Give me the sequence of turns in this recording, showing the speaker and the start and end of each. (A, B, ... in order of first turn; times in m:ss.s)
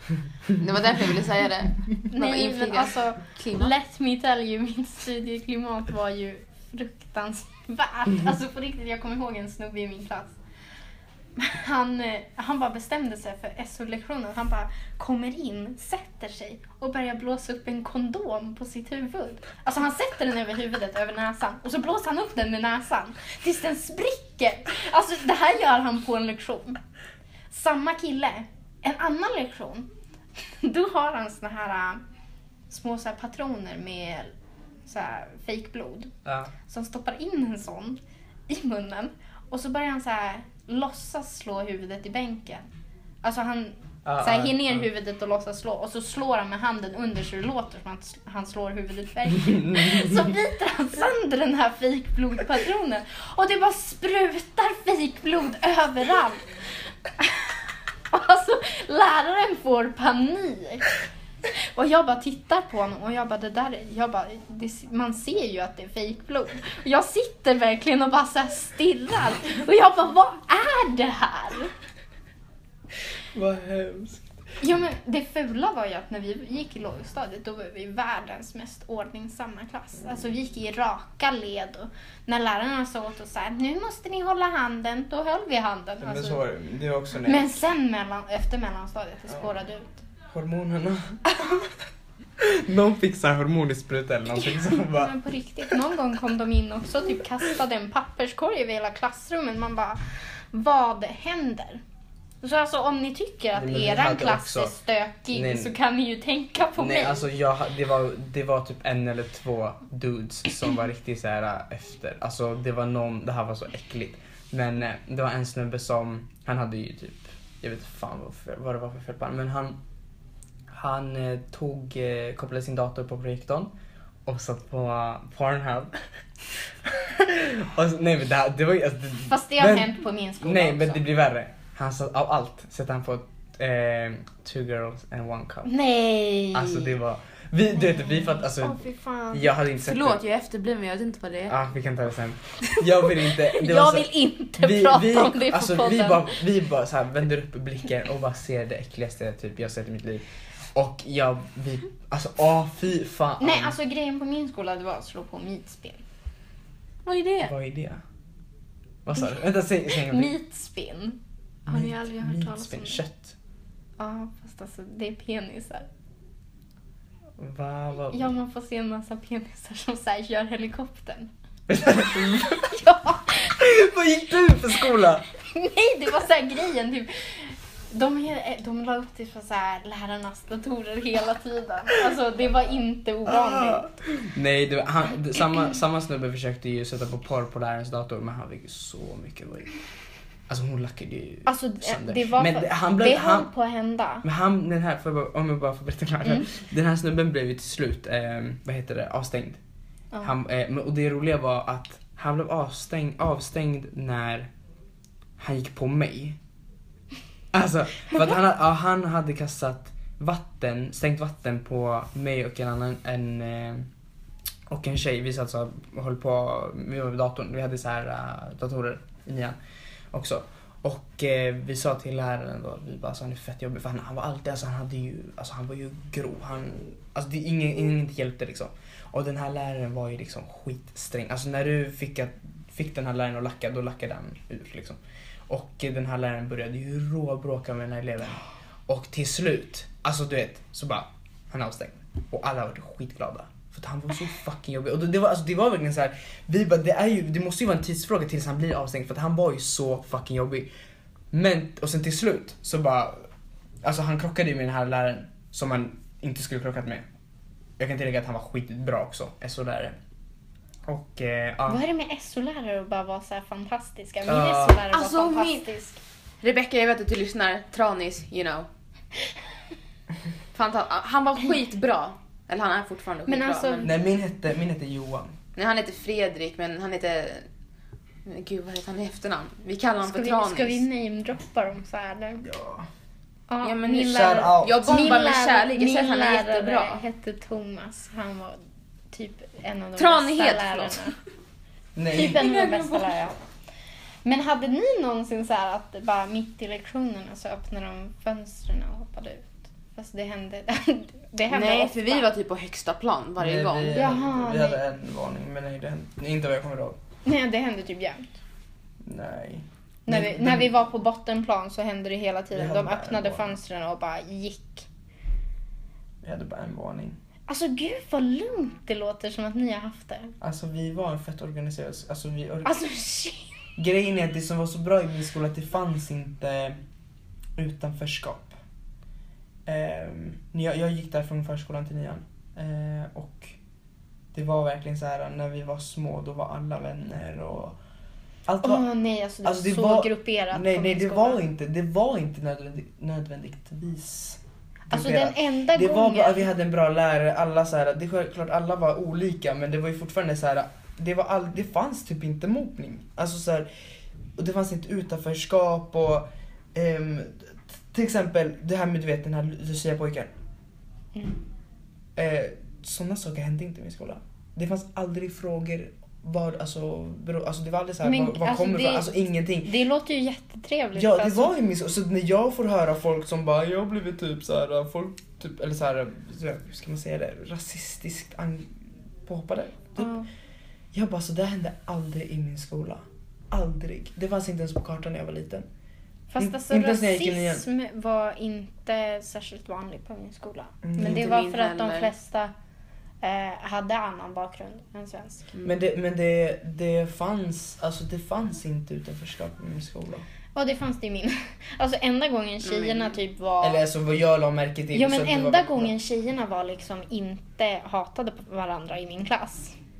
0:00.6-0:03.7 A
0:02.1-0:10.4 B
0:11.4-0:26.8 B
0:27.5-0:29.9 B
0:30.5-0:32.0 B
0:32.7-0:34.3 B
0:34.8-0:36.1 B
0:36.2-0:36.5 C
0:36.6-0:42.7 B
0:43.2-0:56.4 B
0:44.0-0:44.8 C
0:49.4-0:50.3 C
0:57.2-0:57.5 B
0:58.1-1:00.9 B
1:01.5-1:11.7 B
1:13.3-1:14.3 C
1:14.6-1:26.4 B
1:26.0-1:27.5 C
1:27.2-1:30.0 B
1:30.3-1:31.7 C
1:32.4-1:35.1 C
1:34.6-1:40.0 B
1:40.5-1:41.8 B
1:42.4-1:47.3 B
1:43.5-1:44.7 C
1:45.3-1:45.7 C
1:46.8-1:59.8 C
2:00.7-2:03.7 C
2:04.2-2:05.9 C
2:06.5-2:15.7 C
2:09.3-2:11.0 B
2:15.6-2:17.0 B
2:16.5-2:18.8 C
2:17.8-2:19.5 B
2:19.3-2:20.2 C
2:19.8-2:21.6 A
2:21.5-2:30.2 C
2:23.2-2:26.3 B
2:30.7-2:33.7 C
2:33.4-2:36.0 B
2:37.0-2:37.5 A
2:37.4-2:38.0 C
2:39.0-2:40.3 C
2:39.9-2:43.0 B
2:41.7-2:43.4 C
2:44.0-2:45.9 B
2:47.4-2:48.3 C
2:48.1-2:53.6 B
2:51.7-2:52.8 C
2:53.5-2:55.2 C
2:55.4-3:03.9 B
3:03.3-3:09.8 C
3:10.5-3:13.5 C
3:11.4-3:14.2 B
3:14.2-3:19.6 C
3:20.2-3:24.5 C
3:25.4-3:26.4 C
3:27.5-3:33.9 C
3:34.7-3:39.6 C
3:40.1-4:10.7 C
4:11.3-4:13.3 C
4:13.8-4:17.0 C
4:17.8-4:20.0 C
4:20.9-4:21.8 C
4:21.7-4:26.0 B
4:24.2-4:24.8 C
4:24.9-4:25.7 A
4:26.4-4:28.7 A
4:30.5-4:33.9 A
4:33.3-4:33.9 B
4:33.8-4:35.3 C
4:35.6-4:37.5 A
4:38.2-4:40.8 A
4:40.0-4:42.5 B
4:42.4-4:42.9 C
4:43.5-4:48.6 B
4:43.6-4:47.0 A
4:44.0-4:45.0 C
4:49.1-4:51.1 B
4:50.0-4:51.1 A
4:52.0-4:52.4 C
4:52.1-4:53.4 B
4:52.2-4:53.1 A
4:54.2-5:02.3 B
5:01.5-5:04.1 A
5:03.4-5:07.0 C
5:03.9-5:04.8 B
5:07.2-5:08.3 B
5:09.0-5:10.8 C
5:10.1-5:14.9 B
5:12.5-5:13.6 C
5:16.2-5:17.2 C
5:17.5-5:20.3 B
5:20.4-5:22.8 C
5:22.6-5:23.5 B
5:23.8-5:26.8 C
5:27.6-5:28.5 C
5:29.6-5:33.6 C
5:34.3-5:37.8 C
5:38.5-5:38.8 C
5:38.6-5:41.4 B
5:39.4-5:53.7 C
5:44.9-5:46.5 B
5:54.4-6:00.3 C
6:01.1-6:01.4 B
6:02.2-6:09.7 C
6:08.0-6:11.5 B
6:10.9-6:20.2 C
6:20.0-6:20.3 B
6:20.9-6:25.6 C
6:26.3-6:32.5 B
6:26.4-6:27.6 C
6:31.0-6:32.1 A
6:33.2-6:35.5 B
6:35.6-6:40.2 C
6:40.5-6:43.8 B
6:42.6-6:43.1 A
6:43.6-6:45.9 C
6:44.9-6:49.8 B